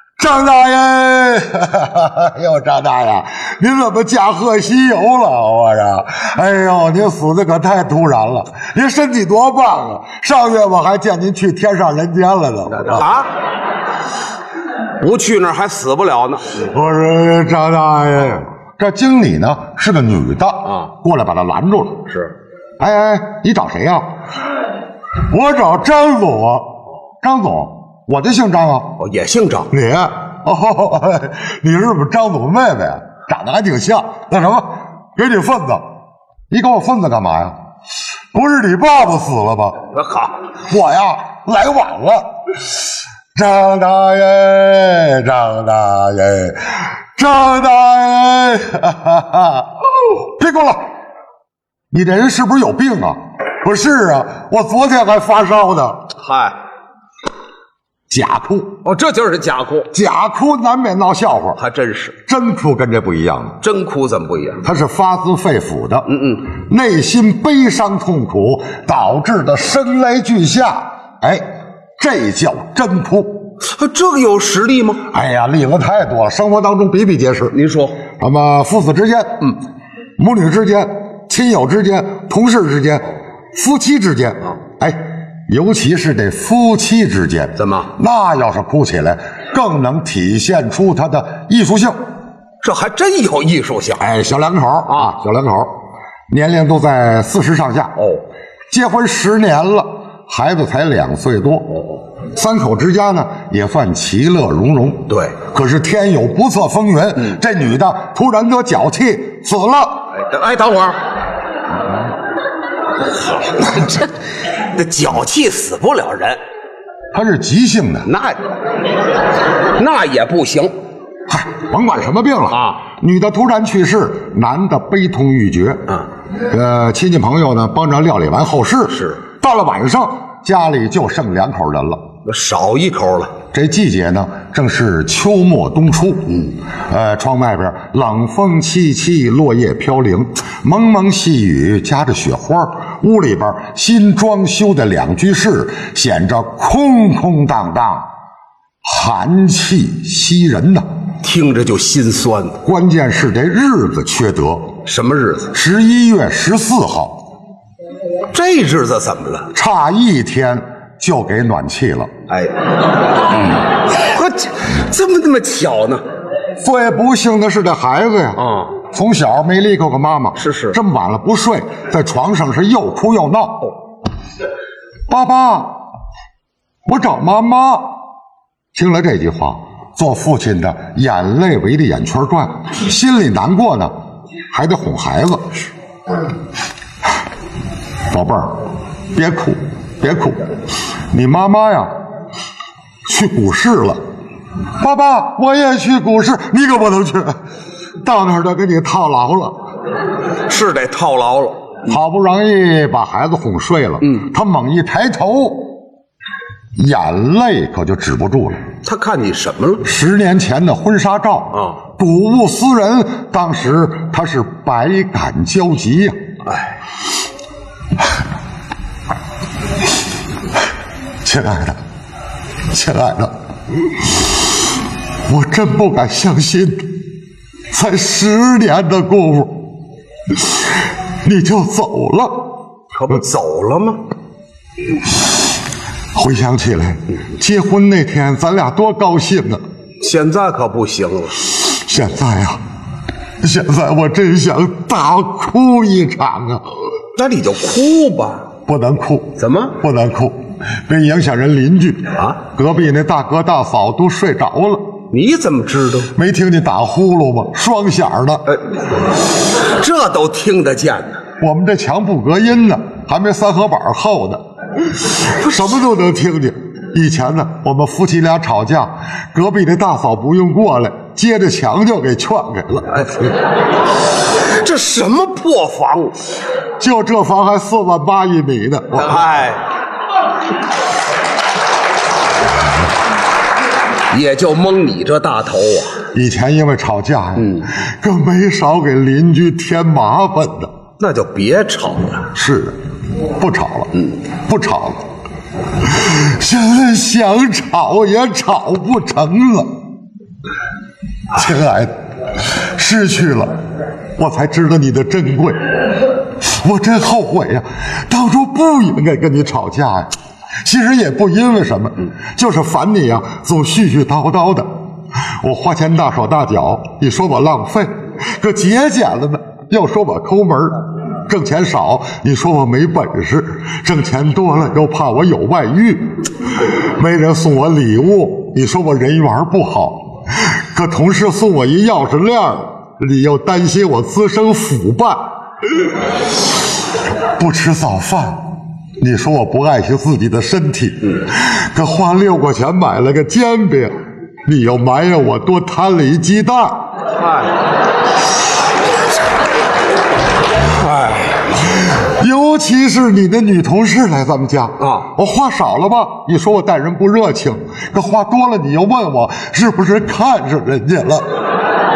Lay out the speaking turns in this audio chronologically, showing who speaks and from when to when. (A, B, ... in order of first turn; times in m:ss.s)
0:00.2-0:13.0 A
0:12.8-0:13.3 B
0:15.0-0:16.6 B
0:16.6-0:22.1 A
0:22.8-0:24.2 A
0:25.3-0:29.0 A
0:29.0-0:29.7 B
0:29.7-0:35.9 A
0:36.5-0:37.6 A
0:38.3-0:39.9 A
0:39.9-0:40.4 B
0:40.7-0:42.3 A
0:43.3-0:50.9 A
0:51.9-0:56.1 A
0:56.2-0:56.6 B
0:58.1-0:58.8 A
0:58.8-0:59.9 B
0:59.9-1:01.6 A
1:01.6-1:02.2 B
1:02.3-1:03.6 A
1:03.6-1:04.6 B
1:04.6-1:13.5 A
1:06.1-1:06.4 B
1:13.6-1:15.0 B
1:15.1-1:17.6 A
1:17.5-1:18.0 B
1:18.2-1:19.5 A
1:20.2-1:32.0 A
1:27.6-1:27.9 B
1:32.6-1:34.0 B
1:34.0-1:35.8 A
1:36.3-1:38.0 A
1:38.7-1:41.8 A
1:42.3-1:50.1 A
1:45.1-1:45.4 B
1:50.1-1:51.0 B
1:53.2-1:54.1 B
1:54.7-1:56.4 B
1:57.1-1:58.1 A
1:58.0-1:58.4 B
1:59.7-2:00.7 B
2:01.3-2:12.0 A
2:02.5-2:02.8 B
2:12.2-2:13.4 B
2:13.5-2:28.1 A
2:28.8-2:30.9 A
2:31.2-2:32.6 B
2:32.6-2:34.8 A
2:34.8-2:35.5 B
2:35.5-2:37.2 A
2:38.3-2:39.5 B
2:39.5-2:42.1 A
2:42.3-2:46.0 B
2:46.6-2:53.6 A
2:48.4-2:48.7 B
2:50.4-2:50.8 B
2:55.1-2:55.8 A
2:56.8-2:57.9 A
2:58.7-3:03.9 A
3:04.5-3:05.6 A
3:08.1-3:10.5 A
3:11.1-3:11.9 A
3:13.0-3:14.0 A
3:14.8-3:17.4 A
3:18.0-3:19.6 A
3:20.5-3:21.8 B
3:21.9-3:25.7 A
3:26.8-3:28.6 A
3:28.8-3:29.8 B
3:29.8-3:36.2 A
3:41.2-3:41.8 A
3:42.7-3:43.4 A
3:45.3-3:47.0 A
3:47.7-3:49.7 A
3:51.2-3:52.5 A
3:52.9-3:54.0 B
3:56.1-3:59.6 A
4:00.0-4:01.5 B
4:01.6-4:02.6 A
4:03.4-4:06.6 A
4:07.2-4:08.4 B
4:08.7-4:14.9 A
4:09.4-4:09.8 B
4:15.1-4:16.1 B
4:16.1-4:18.5 A
4:19.6-4:21.2 B
4:21.4-4:33.1 A
4:34.3-4:36.2 B
4:36.8-4:39.2 A
4:39.0-4:39.6 B
4:44.1-4:46.0 B
4:46.1-4:50.7 A
4:47.4-4:47.6 B
4:51.0-4:52.3 B
4:52.3-4:55.0 A
4:55.8-4:59.7 A
5:01.3-5:03.6 A
5:04.2-5:10.1 A
5:10.6-5:14.7 A
5:15.4-5:35.3 A
5:37.4-5:46.9 A
5:47.2-5:47.5 B
5:50.7-5:51.4 B
5:52.0-6:01.3 A
5:54.8-5:55.1 B